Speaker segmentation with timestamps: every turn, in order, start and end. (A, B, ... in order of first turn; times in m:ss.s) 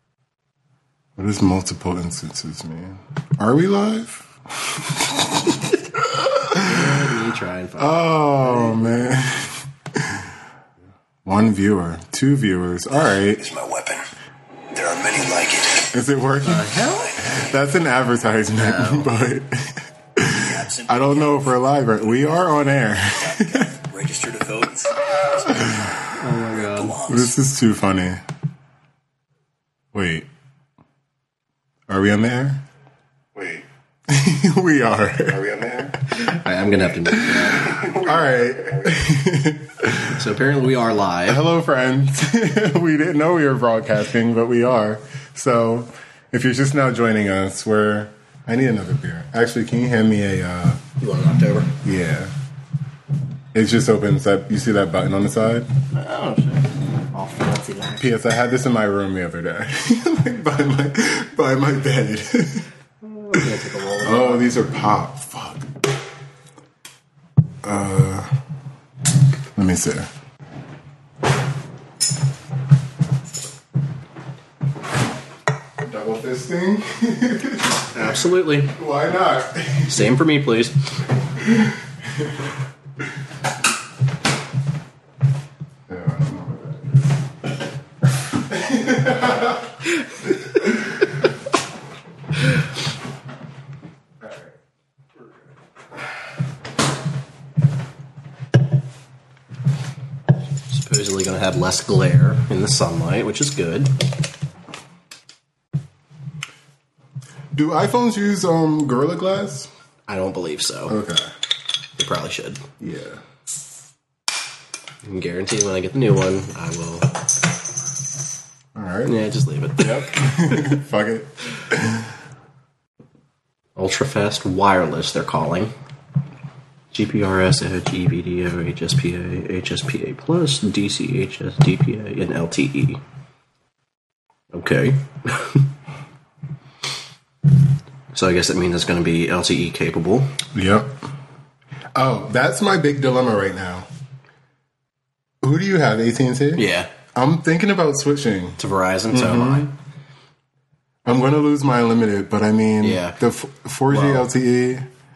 0:01.2-0:06.9 A
0:06.5-0:09.0 B
0:07.8-0:10.3 A
0:11.2-0:13.5 A
0:13.4-0:14.0 C
0:14.7-0:15.9 C
0:15.8-0:23.7 A
0:16.4-0:17.2 B
0:18.6-0:19.1 B
0:20.5-0:21.3 C
0:23.4-0:25.7 C
0:25.5-0:26.1 A
0:26.1-0:27.2 B
0:26.8-0:27.2 C
0:27.0-0:28.2 A
0:29.9-0:30.3 A
0:31.9-0:32.6 A
0:34.1-0:36.0 A
0:36.1-0:37.9 B
0:37.1-0:40.2 A
0:40.1-0:41.4 B
0:41.3-0:50.8 A
0:51.0-0:51.7 B
0:51.7-0:52.3 A
0:53.5-0:55.7 A
0:55.9-0:58.0 B
0:58.0-1:02.7 A
1:03.0-1:04.6 B
1:03.3-1:05.7 A
1:07.6-1:08.3 A
1:09.5-1:10.1 A
1:15.8-1:17.8 A
1:17.9-1:18.7 B
1:18.7-1:20.1 A
1:19.9-1:20.8 B
1:21.4-1:22.5 A
1:25.9-1:27.1 A
1:28.2-1:29.7 A
1:30.6-1:31.1 A
1:40.7-1:44.0 B
1:47.5-1:49.7 A
1:50.1-1:51.0 B
1:50.9-1:51.3 A
1:52.0-1:52.6 B
1:52.8-1:53.2 A
1:55.0-1:57.1 B
1:58.7-1:59.2 A
1:59.0-2:00.7 B
1:59.8-2:02.1 A
2:03.8-2:05.7 B
2:06.9-2:13.0 B
2:14.5-2:15.7 B
2:18.1-2:20.3 B
2:20.5-2:21.0 A
2:21.9-2:23.9 A
2:25.4-2:28.6 A
2:26.6-2:26.9 B
2:28.6-2:29.7 B
2:29.1-2:29.7 A
2:31.0-2:34.9 A
2:32.8-2:33.2 B
2:33.9-2:34.3 B